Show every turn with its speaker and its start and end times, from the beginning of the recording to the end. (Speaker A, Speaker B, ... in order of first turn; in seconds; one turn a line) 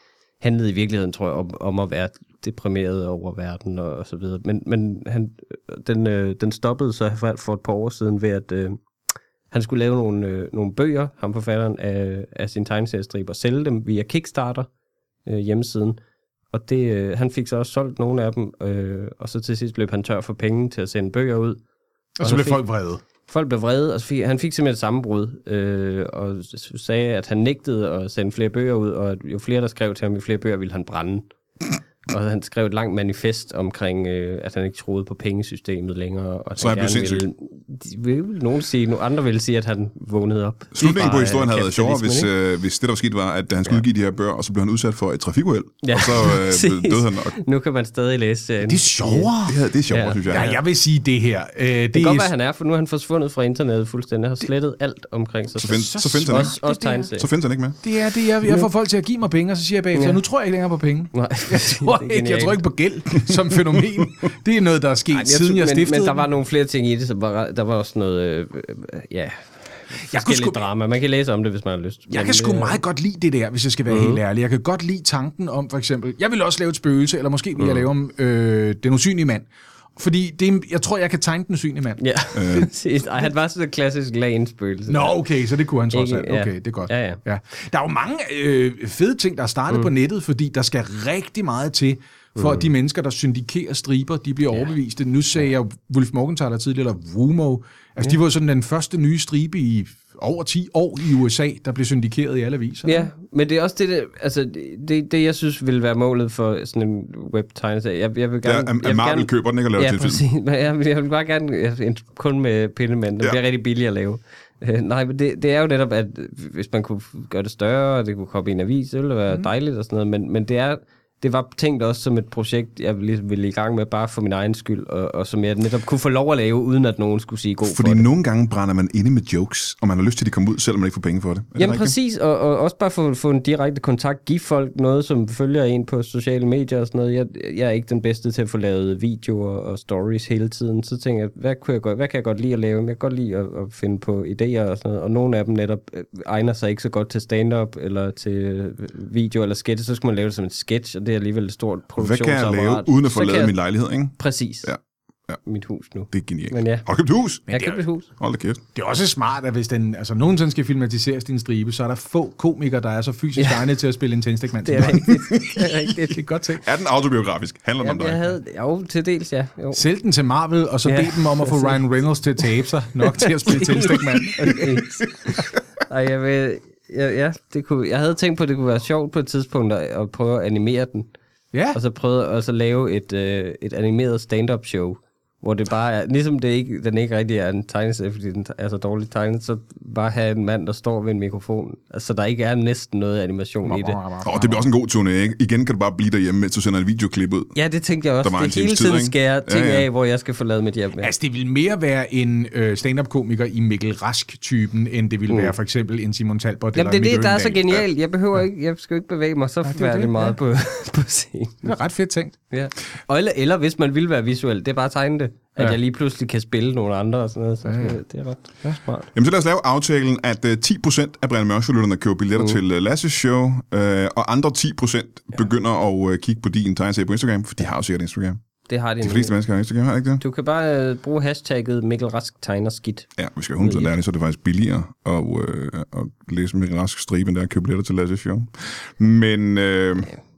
Speaker A: 0.4-8.8
Speaker A: 9.5-14.7
Speaker A: 15.2-16.0
Speaker A: 16.5-21.6
Speaker B: 22.2-23.0
Speaker A: 22.2-22.6
Speaker A: 23.3-31.2
Speaker A: 32.1-42.3
Speaker C: 36.6-37.2
Speaker C: 40.7-47.4
Speaker A: 45.8-49.3
Speaker B: 48.6-49.6
Speaker C: 49.4-50.5
Speaker A: 49.9-50.6
Speaker B: 50.3-52.3
Speaker A: 51.9-57.3
Speaker C: 55.6-56.5
Speaker B: 55.6-57.1
Speaker C: 57.2-57.8
Speaker B: 57.8-66.2
Speaker A: 59.9-60.2
Speaker A: 61.1-62.6
Speaker A: 65.1-72.8
Speaker B: 70.0-70.7
Speaker B: 72.1-79.5
Speaker A: 73.9-74.2
Speaker A: 77.6-77.9
Speaker B: 80.0-82.0
Speaker A: 82.0-85.2
Speaker C: 82.3-82.7
Speaker B: 84.9-103.1
Speaker A: 85.9-87.2
Speaker A: 92.4-92.7
Speaker A: 102.8-128.1
Speaker C: 108.4-110.2
Speaker C: 127.6-131.9
Speaker A: 131.6-153.5
Speaker C: 152.0-155.4
Speaker A: 154.2-154.7
Speaker A: 155.4-156.8
Speaker C: 156.1-157.5
Speaker A: 157.5-158.1
Speaker B: 157.5-157.8
Speaker C: 158.2-158.6
Speaker B: 158.7-165.2
Speaker A: 163.4-163.6
Speaker A: 164.6-166.2
Speaker C: 164.8-165.7
Speaker B: 166.0-166.7
Speaker C: 166.6-168.3
Speaker A: 167.8-169.8
Speaker B: 169.7-174.8
Speaker A: 170.8-171.8
Speaker A: 173.2-181.1
Speaker B: 181.5-181.8
Speaker A: 181.7-194.0
Speaker B: 193.6-194.7
Speaker C: 194.2-197.5
Speaker A: 197.5-201.1
Speaker C: 198.2-199.9
Speaker B: 201.0-207.6
Speaker A: 205.3-205.5
Speaker A: 206.7-211.7
Speaker B: 209.7-210.3
Speaker B: 211.6-212.4
Speaker A: 212.5-219.1
Speaker B: 217.6-218.0
Speaker C: 219.1-228.4
Speaker A: 228.7-229.3
Speaker C: 229.0-230.2
Speaker A: 230.2-233.9
Speaker C: 233.2-240.1